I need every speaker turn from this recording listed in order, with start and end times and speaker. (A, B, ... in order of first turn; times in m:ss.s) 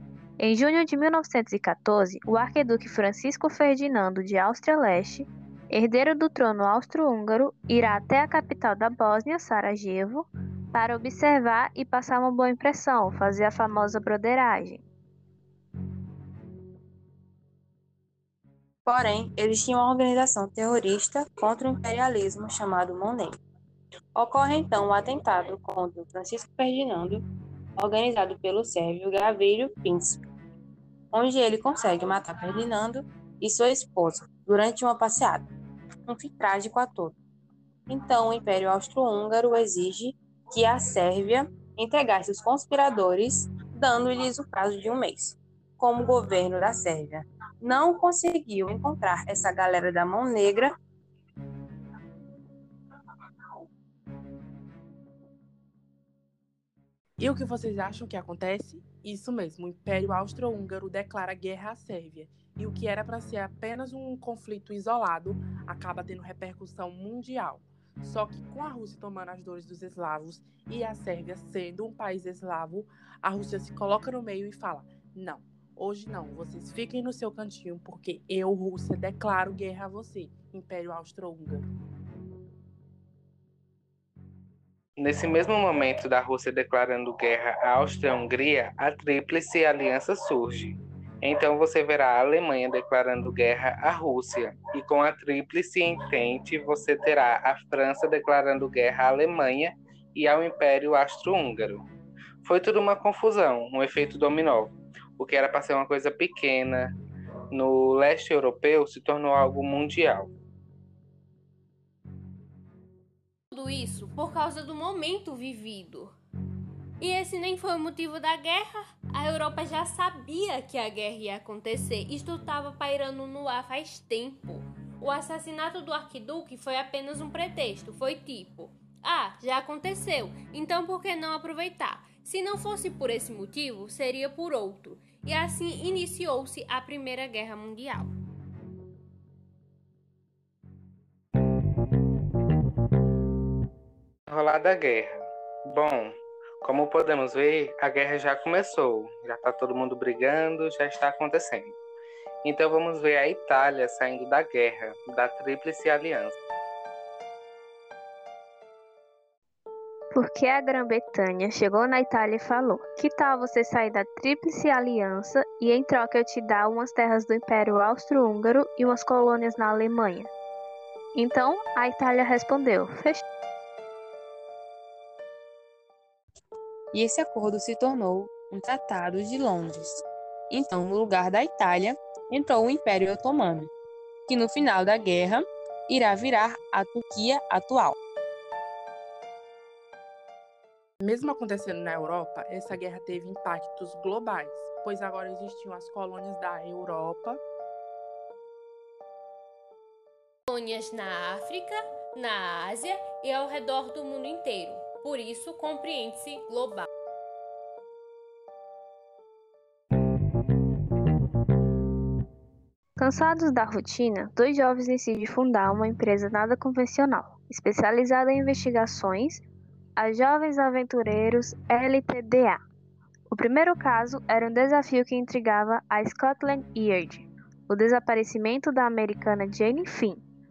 0:00.4-0:14.8 A
0:18.8-0:23.4 B
0:24.1-0:27.2 B
0:27.8-0:30.2 B
0:31.1-0:35.5 B
0:36.1-0:37.2 B
0:37.9-0:50.7 B
0:57.2-1:21.6 C
1:25.0-1:41.8 D
1:42.4-1:46.9 D
1:47.5-1:50.3 D
1:53.5-1:56.1 E
1:57.0-2:18.1 E
2:24.3-2:31.8 D
2:32.4-2:36.4 D
2:40.1-2:50.3 A
2:51.1-2:53.2 A
2:56.9-3:03.7 B
3:04.3-3:08.0 B
3:11.0-3:17.4 C
3:20.5-3:26.9 E
3:33.0-3:39.4 A
3:40.0-3:42.6 A
3:43.3-3:50.2 A